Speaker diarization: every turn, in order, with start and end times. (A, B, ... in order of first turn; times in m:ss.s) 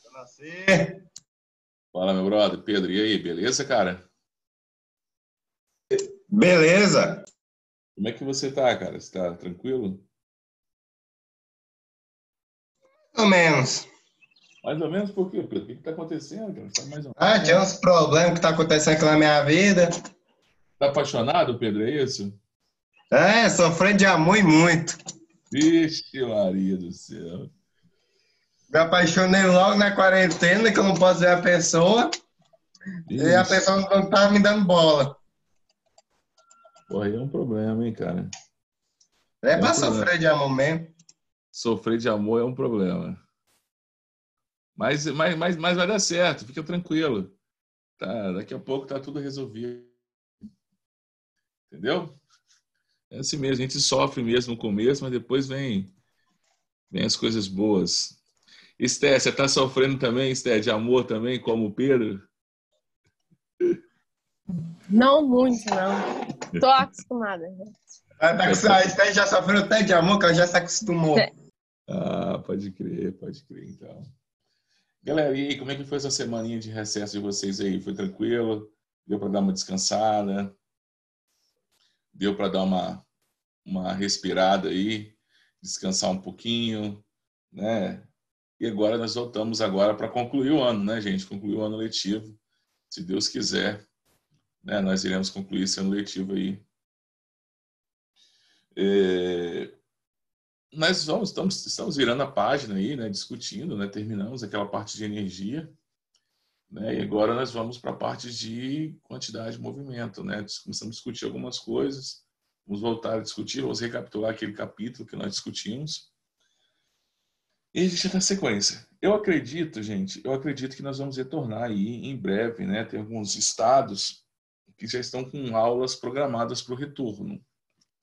0:00.1-0:01.0 A
0:01.9-0:04.0 B
0:06.3-0:07.2 A
0:08.0-0:10.0 B
0:13.1-0:13.9 A
0:14.6-0:17.6 B
0:17.2-0:19.9 A
0:20.8-0:22.4 B
0:23.1-0:25.0 A
0:25.5-0:27.5 B
0:28.7-0:32.1 A
0:33.1-0:33.6 B
0:33.1-0:35.2 A
0:36.9-0:38.3 B
0:39.4-0:40.9 A
0:39.5-0:40.1 B
0:41.5-0:43.2 B
0:44.8-0:47.3 B
0:48.0-0:49.9 B
0:51.7-0:52.2 B
0:53.1-0:55.9 B
0:56.9-0:58.2 B
0:58.8-1:02.2 B
1:04.9-1:07.7 C
1:08.2-1:11.2 A
1:08.4-1:08.9 B
1:11.9-1:14.0 B
1:15.0-1:20.5 B
1:22.1-1:23.0 B
1:23.6-1:32.4 B
1:32.9-1:33.8 B
1:34.6-1:36.6 B
1:38.7-1:39.7 B
1:40.7-1:45.7 B
1:46.7-1:56.1 B
1:57.7-2:04.2 B
2:04.8-2:07.4 B